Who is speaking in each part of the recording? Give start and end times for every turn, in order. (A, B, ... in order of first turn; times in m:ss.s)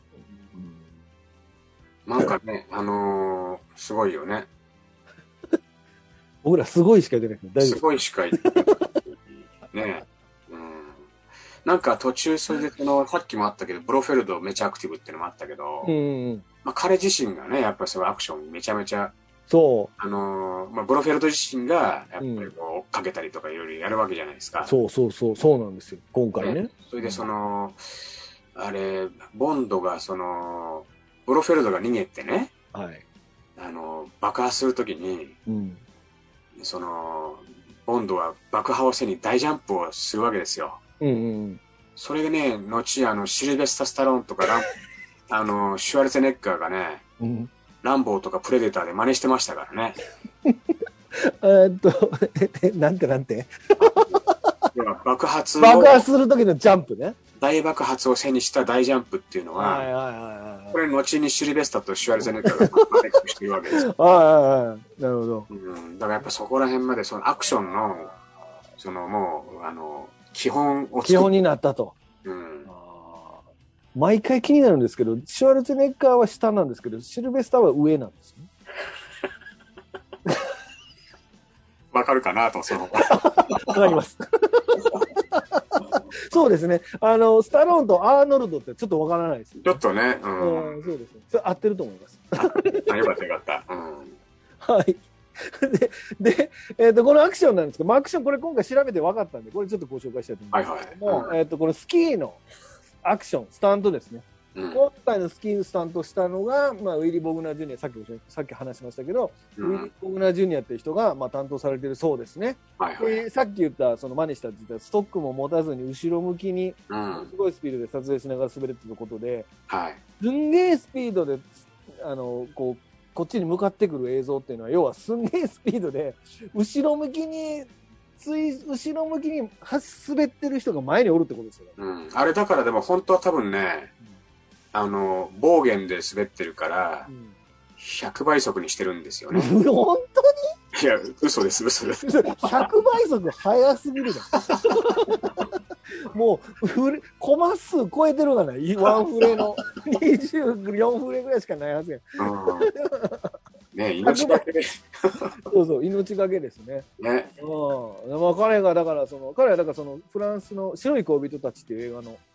0:00.3-0:00.9 A
0:02.1-0:04.5 B
0:06.4-0:08.8 A
0:07.6-0:11.1 B
0:11.6-0:15.9 B
0:15.8-0:16.4 A
0:16.6-0:19.2 B
0:19.5-0:19.9 A
0:20.0-0:24.7 B
0:22.2-0:22.5 A
0:24.6-0:27.3 A
0:26.4-0:32.5 B
0:32.7-0:33.0 A
0:33.6-0:35.4 B
0:35.5-0:35.8 A
0:36.6-0:40.8 B
0:41.0-0:41.6 A
0:42.0-0:44.7 B
0:45.3-0:47.0 B
0:47.2-0:47.5 A
0:47.8-0:50.0 B
0:51.1-0:54.6 A
0:54.7-0:56.1 B
0:55.6-0:57.2 A
0:57.4-0:59.9 B
0:59.6-1:00.8 A
1:00.7-1:03.9 B
1:02.3-1:03.0 A
1:03.7-1:05.5 A
1:05.5-1:08.1 B
1:08.8-1:11.3 B
1:11.0-1:12.0 A
1:12.2-1:12.7 B
1:12.6-1:13.4 A
1:14.0-1:18.5 A
1:21.9-1:24.0 B
1:22.9-1:29.8 A
1:29.6-1:30.8 B
1:30.4-1:33.0 A
1:32.4-1:34.2 B
1:34.6-1:42.4 A
1:40.5-1:41.3 B
1:43.0-1:59.5 A
1:44.6-1:44.8 B
1:49.6-1:49.9 B
1:52.8-1:53.2 B
1:56.9-1:57.3 B
1:59.7-2:00.0 B
2:00.2-2:11.8 A
2:11.8-2:13.9 B
2:14.7-2:17.1 B
2:17.1-2:17.4 A
2:17.8-2:19.5 B
2:19.3-2:20.3 A
2:20.7-2:22.7 B
2:22.0-2:25.5 A
2:26.0-2:33.4 A
2:32.2-2:32.7 B
2:33.7-2:35.4 B
2:34.0-2:34.4 A
2:35.4-2:36.9 A
2:37.0-2:37.3 B
2:37.4-2:42.2 A